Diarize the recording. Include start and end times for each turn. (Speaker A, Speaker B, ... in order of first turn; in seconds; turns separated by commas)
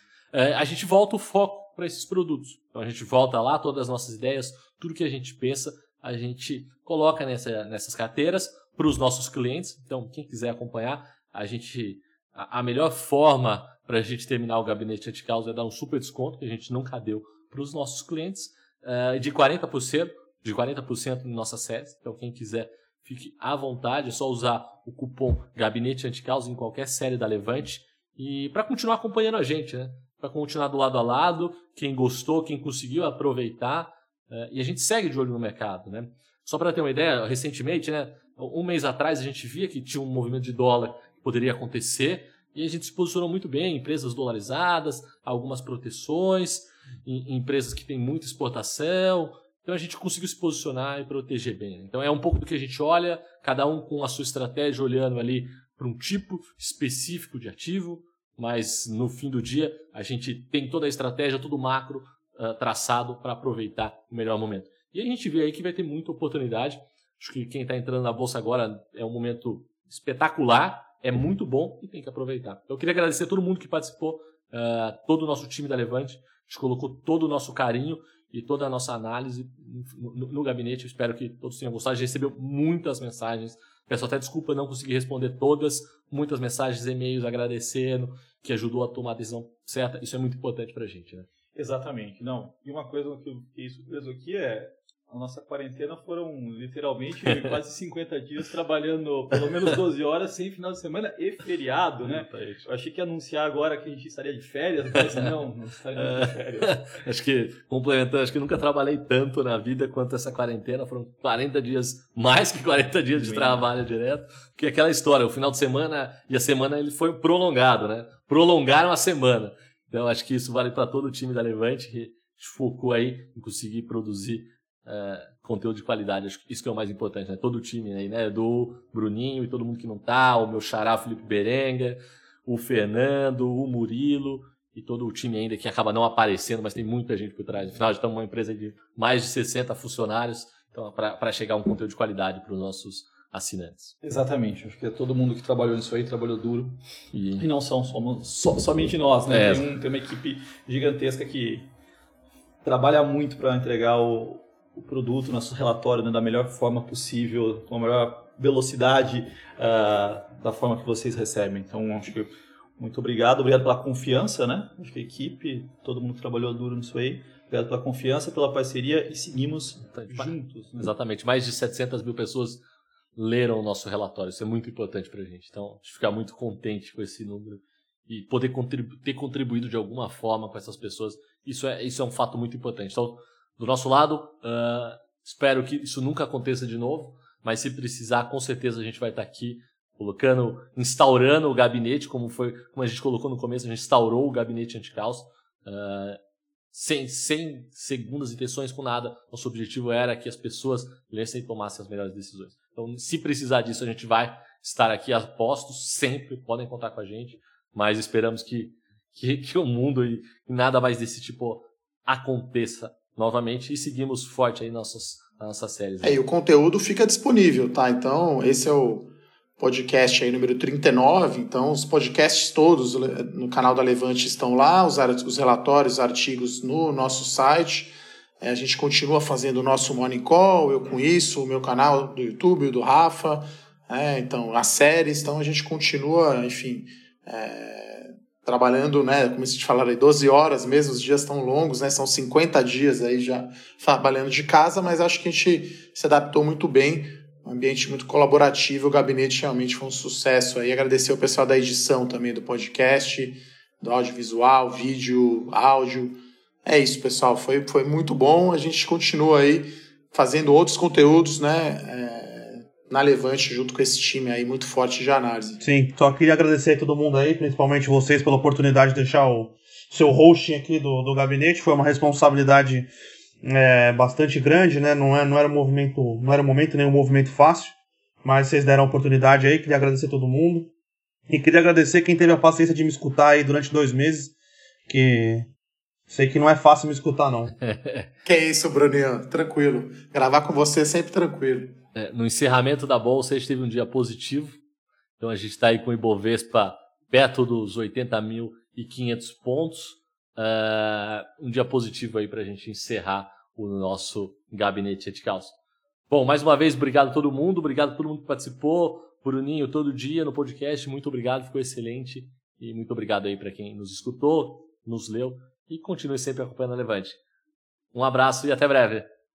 Speaker A: 0.3-91.2, Speaker B: 91.5-106.9, Speaker A: 102.0-102.7, Speaker A: 106.0-143.9, Speaker B: 113.1-113.7, Speaker B: 144.0-146.8, Speaker A: 147.1-147.5, Speaker B: 147.4-151.7, Speaker A: 149.3-149.7, Speaker B: 152.6-170.9, Speaker A: 169.9-172.6, Speaker A: 173.2-196.2, Speaker A: 196.7-216.2, Speaker C: 216.0-265.6, Speaker D: 265.6-272.9, Speaker D: 273.4-280.7, Speaker D: 281.3-284.3, Speaker D: 284.9-285.5, Speaker D: 286.1-287.5, Speaker A: 287.6-288.1, Speaker C: 288.2-291.8, Speaker A: 291.9-294.6, Speaker A: 295.2-305.5, Speaker A: 306.1-317.2, Speaker A: 317.9-319.1